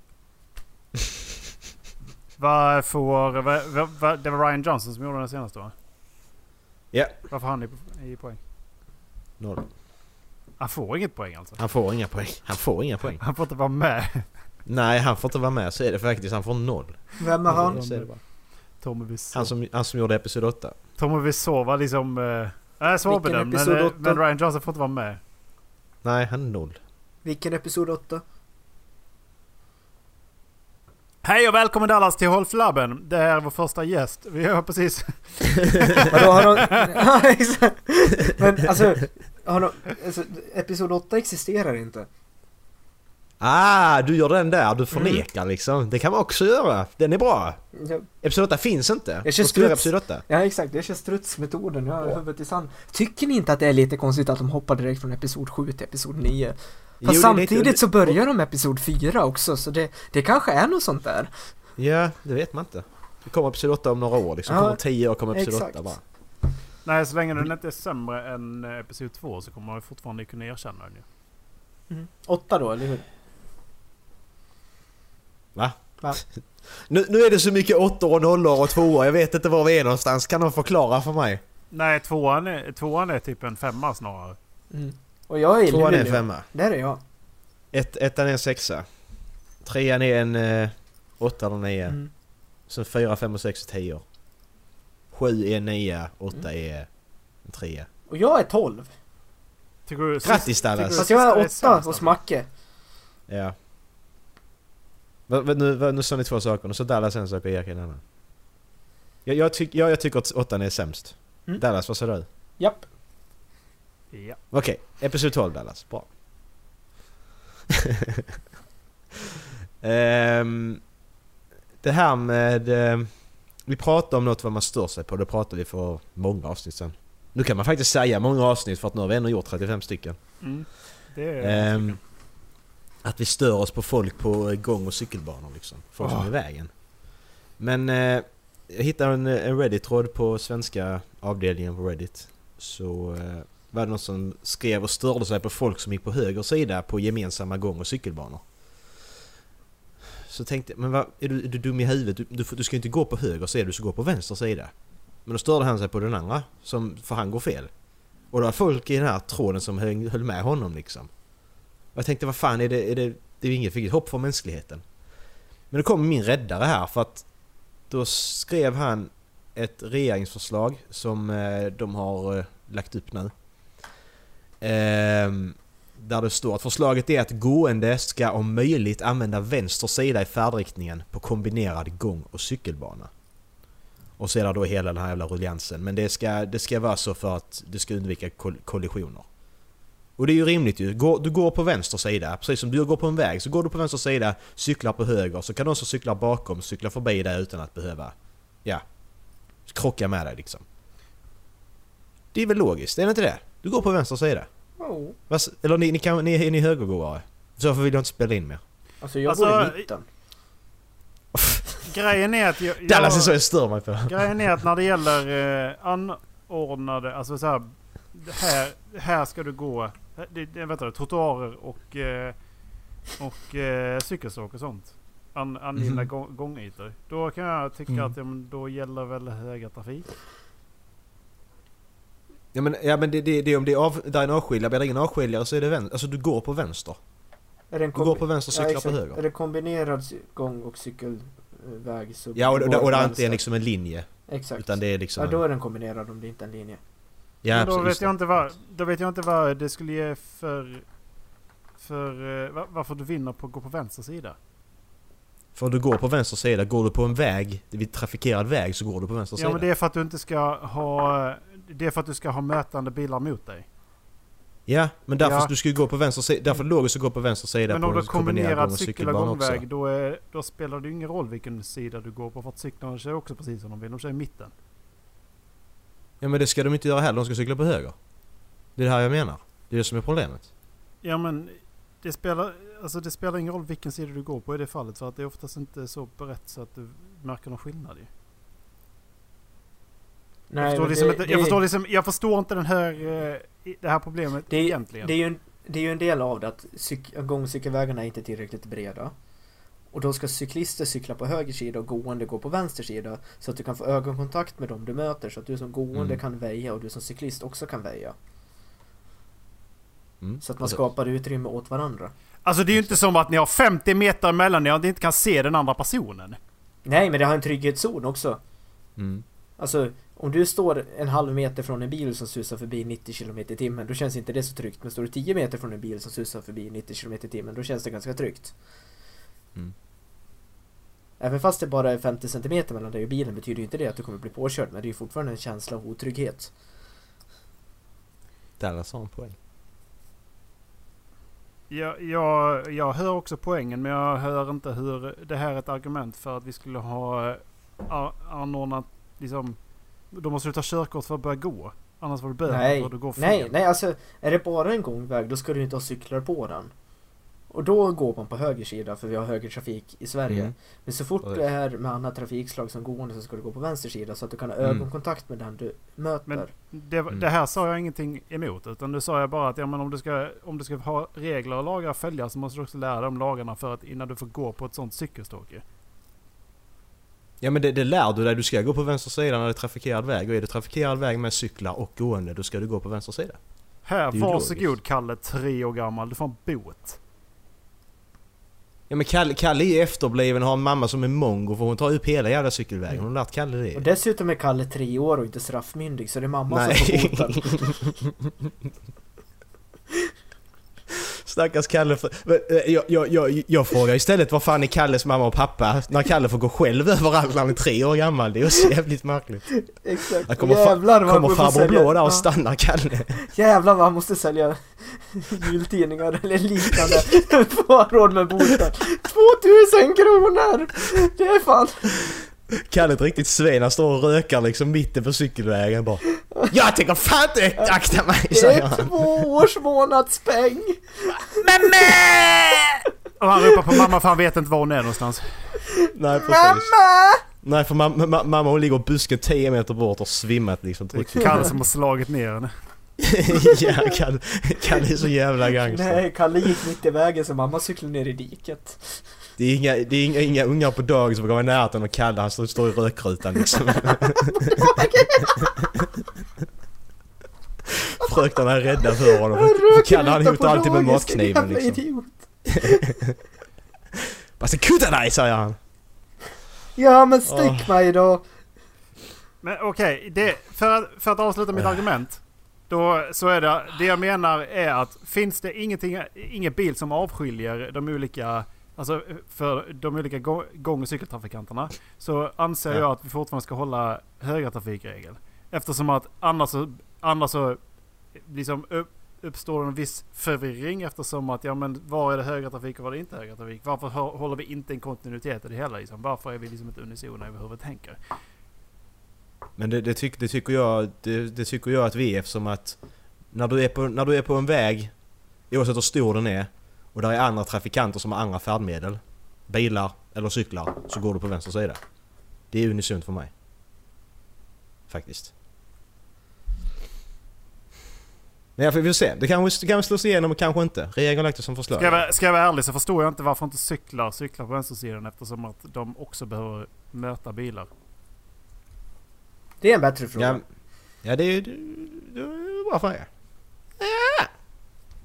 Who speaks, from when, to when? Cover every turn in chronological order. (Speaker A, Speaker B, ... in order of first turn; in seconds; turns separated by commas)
Speaker A: 2.4-5.7, Speaker B: 6.9-7.2, Speaker A: 7.3-8.4, Speaker B: 9.4-9.7, Speaker A: 10.6-11.6, Speaker B: 11.6-13.2, Speaker A: 13.2-14.3, Speaker B: 14.7-18.2, Speaker C: 17.2-17.8, Speaker A: 17.5-18.2, Speaker A: 18.8-19.5, Speaker B: 19.3-20.8, Speaker A: 21.0-25.2, Speaker C: 23.1-24.2, Speaker B: 26.0-26.8, Speaker C: 27.2-28.2, Speaker A: 31.2-36.9, Speaker C: 36.1-42.1, Speaker B: 43.4-47.6, Speaker C: 44.9-45.2, Speaker C: 47.8-48.1, Speaker B: 48.2-50.2, Speaker C: 49.2-61.3, Speaker B: 57.0-58.2, Speaker B: 61.8-66.0, Speaker C: 64.5-64.8, Speaker C: 65.3-65.9, Speaker A: 66.8-71.0, Speaker C: 71.9-73.0, Speaker B: 75.5-81.4, Speaker A: 81.7-84.4, Speaker C: 84.7-87.0, Speaker B: 85.7-86.5, Speaker B: 87.7-88.9, Speaker B: 89.6-92.0, Speaker B: 92.7-94.0, Speaker B: 95.1-96.9, Speaker B: 97.4-97.9, Speaker C: 98.1-98.9, Speaker A: 99.9-102.2, Speaker B: 100.2-101.1, Speaker C: 101.0-102.5, Speaker B: 103.3-103.5, Speaker B: 105.3-108.0, Speaker B: 109.2-112.3, Speaker C: 112.6-112.9, Speaker A: 114.1-114.4, Speaker B: 114.5-116.1, Speaker B: 117.8-118.3, Speaker B: 119.8-120.8, Speaker B: 121.8-123.1, Speaker B: 123.7-130.2, Speaker A: 130.4-132.0, Speaker B: 131.4-132.0, Speaker B: 133.0-136.7, Speaker A: 136.0-136.3, Speaker B: 137.6-148.4, Speaker B: 150.3-154.7, Speaker B: 155.3-157.7, Speaker B: 158.3-161.1, Speaker B: 161.9-164.8, Speaker B: 165.7-167.3, Speaker B: 167.9-173.3, Speaker B: 174.6-183.1, Speaker B: 184.2-189.3, Speaker B: 190.2-198.1, Speaker B: 199.7-200.7, Speaker B: 202.3-204.5, Speaker C: 204.8-205.2, Speaker B: 205.3-208.6, Speaker C: 209.0-210.1, Speaker A: 209.3-209.8, Speaker B: 211.3-211.6, Speaker A: 211.9-213.4, Speaker B: 212.8-214.5, Speaker A: 214.1-222.3, Speaker A: 223.2-230.1, Speaker B: 225.8-226.1, Speaker B: 232.5-237.0, Speaker C: 237.7-243.4, Speaker B: 237.9-239.2, Speaker B: 242.3-245.4, Speaker C: 244.3-246.8, Speaker B: 247.4-248.2, Speaker A: 247.5-250.8, Speaker A: 251.8-254.4, Speaker B: 255.6-259.7, Speaker A: 259.4-263.7, Speaker B: 264.7-269.6, Speaker A: 265.2-265.5, Speaker A: 267.7-274.5, Speaker B: 276.2-277.9, Speaker B: 278.8-280.5, Speaker A: 281.0-288.1, Speaker C: 290.5-291.6, Speaker A: 290.6-295.1, Speaker C: 294.5-299.1, Speaker C: 299.9-308.1, Speaker B: 305.9-306.2, Speaker B: 310.2-310.8, Speaker C: 310.4-312.1, Speaker A: 312.4-316.4, Speaker C: 316.9-318.4, Speaker B: 319.0-319.2, Speaker C: 319.6-328.5, Speaker C: 331.2-336.5, Speaker B: 338.6-339.4, Speaker A: 341.7-349.6, Speaker A: 350.1-353.5, Speaker C: 352.5-356.7, Speaker C: 357.5-366.5, Speaker B: 360.3-360.5, Speaker A: 366.3-375.6, Speaker B: 377.4-383.4, Speaker A: 383.9-387.0, Speaker B: 384.1-384.7, Speaker B: 388.9-393.8, Speaker C: 393.7-397.7, Speaker B: 396.5-398.5, Speaker B: 401.1-409.5, Speaker C: 409.6-412.3, Speaker B: 410.3-413.2, Speaker C: 413.3-421.9, Speaker B: 422.1-429.3, Speaker C: 428.3-430.8, Speaker B: 431.3-432.8, Speaker A: 433.2-435.3, Speaker B: 435.9-436.7, Speaker C: 436.2-437.2, Speaker B: 437.4-441.5, Speaker A: 441.0-442.5, Speaker B: 443.0-446.1, Speaker C: 443.4-443.8, Speaker C: 445.7-449.0, Speaker B: 449.4-455.9, Speaker C: 454.3-455.5, Speaker B: 457.7-461.8, Speaker C: 459.1-462.9, Speaker B: 462.5-463.2, Speaker B: 464.4-465.6, Speaker C: 466.8-468.2, Speaker B: 467.2-467.7, Speaker A: 469.4-487.6, Speaker B: 471.6-471.8, Speaker A: 488.2-498.0, Speaker B: 499.6-502.8, Speaker B: 503.3-504.9, Speaker B: 505.5-511.8, Speaker B: 512.5-513.3, Speaker B: 514.9-515.3, Speaker B: 518.6-522.1, Speaker A: 521.8-527.7, Speaker C: 529.6-530.4, Speaker B: 530.2-530.4, Speaker B: 531.0-533.1, Speaker B: 533.8-534.3